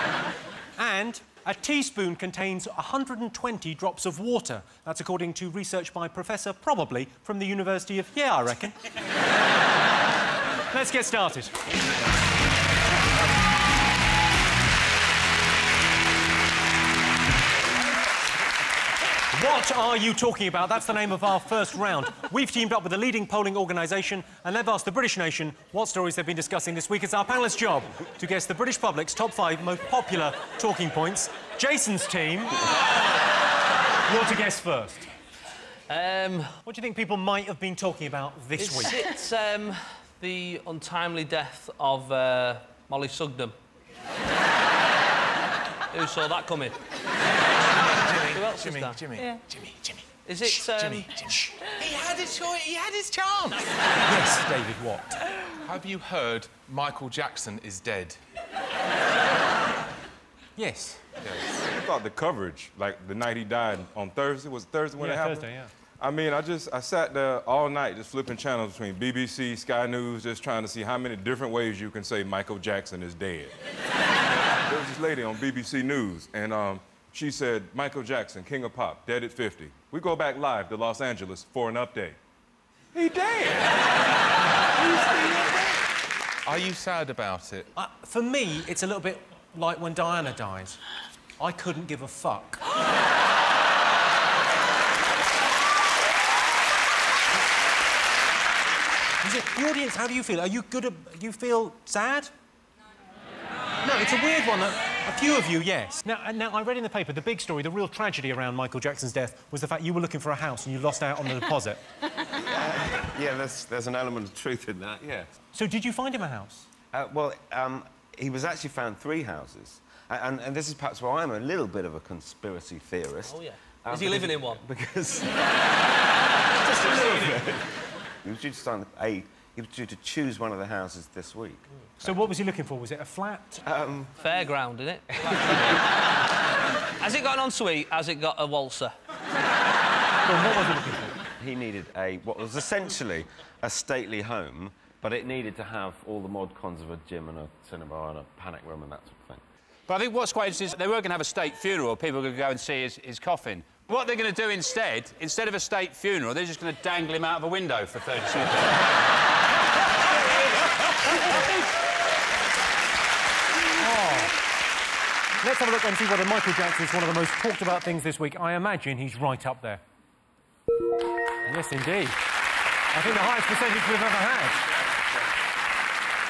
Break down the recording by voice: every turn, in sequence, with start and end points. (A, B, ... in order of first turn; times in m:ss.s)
0:00.8-0:08.8 A
0:10.7-0:11.5 A
0:19.3-0:32.7 A
0:34.0-0:35.1 A
0:35.9-0:36.5 B
0:36.6-0:39.0 A
0:38.6-0:43.5 B
0:45.9-0:46.8 B
0:47.9-0:53.7 C
0:48.3-0:49.2 B
0:50.2-0:51.1 B
0:54.0-0:55.2 A
0:55.6-0:58.2 C
1:00.6-1:01.0 A
1:01.3-1:05.5 D
1:05.0-1:05.7 A
1:06.0-1:13.5 D
1:14.7-1:22.2 D
1:22.9-1:23.8 D
1:24.8-1:25.7 D
1:26.4-1:27.7 C
1:27.8-1:30.8 A
1:31.4-1:32.6 A
1:39.2-1:42.3 A
1:43.8-1:51.8 A
1:52.2-1:55.3 E
1:55.5-1:56.7 A
1:56.9-2:05.6 E
2:03.3-2:04.6 B
2:06.6-2:12.2 E
2:12.0-2:13.6 A
2:13.6-2:14.1 E
2:14.2-2:18.9 B
2:20.2-2:21.2 A
2:21.4-2:29.4 E
2:29.9-2:38.8 F
2:43.8-2:44.3 A
2:45.4-2:49.8 A
2:51.4-2:52.2 A
2:52.9-2:54.6 A